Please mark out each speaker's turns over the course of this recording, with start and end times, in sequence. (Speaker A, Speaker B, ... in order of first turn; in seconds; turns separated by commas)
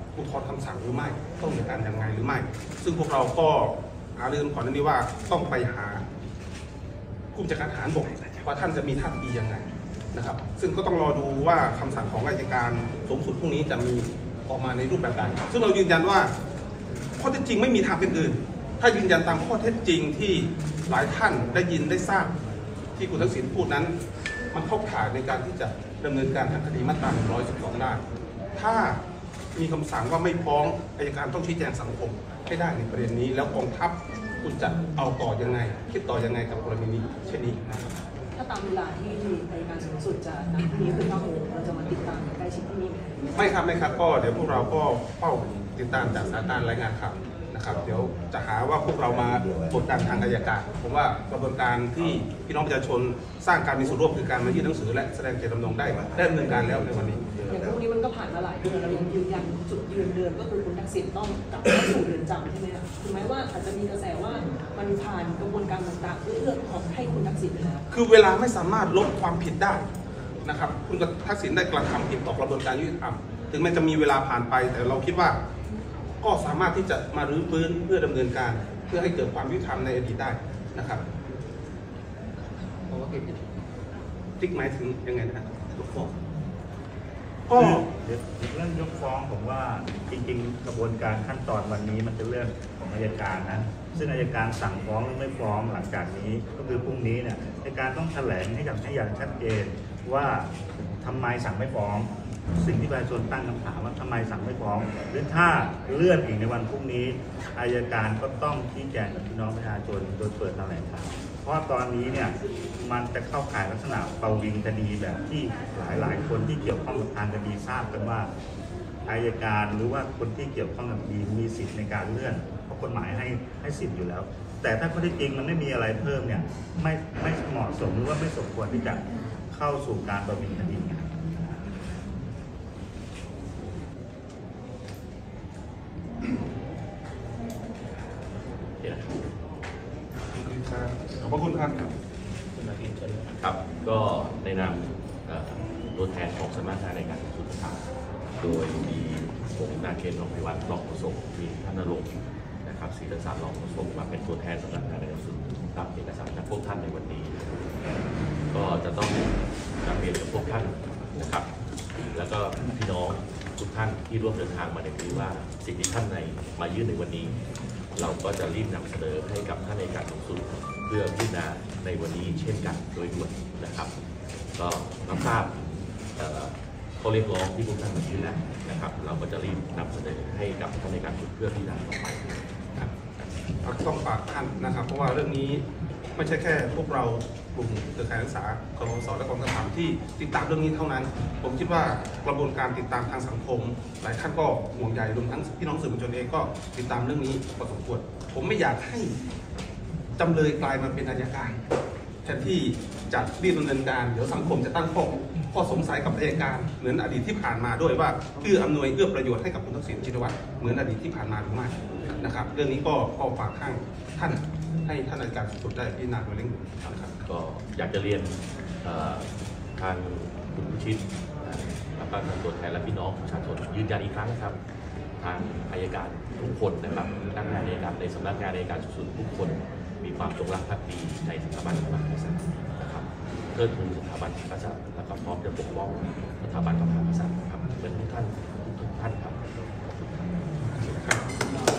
Speaker A: 0.1-6.0, Speaker A: 7.3-16.3, Speaker A: 17.2-22.3, Speaker A: 23.0-24.0, Speaker A: 24.5-28.0, Speaker A: 28.6-29.0, Speaker A: 29.6-37.8, Speaker B: 38.3-43.2, Speaker A: 43.4-57.2, Speaker B: 57.5-67.8, Speaker A: 67.9-69.9, Speaker A: 70.4-75.4, Speaker A: 76.2-81.0, Speaker A: 84.4-86.1, Speaker A: 87.5-87.8, Speaker C: 87.5-118.3, Speaker C: 119.0-131.1, Speaker D: 138.8-139.2, Speaker A: 140.3-141.9, Speaker A: 142.6-143.2, Speaker D: 143.4-147.9, Speaker D: 148.4-157.8, Speaker D: 158.5-161.5, Speaker D: 162.1-167.4, Speaker D: 167.9-173.9, Speaker D: 174.6-182.4, Speaker A: 183.6-185.7, Speaker A: 186.2-199.2, Speaker A: 200.2-201.6, Speaker A: 202.2-217.2, Speaker D: 217.2-224.6, Speaker D: 225.2-239.4, Speaker A: 240.8-241.2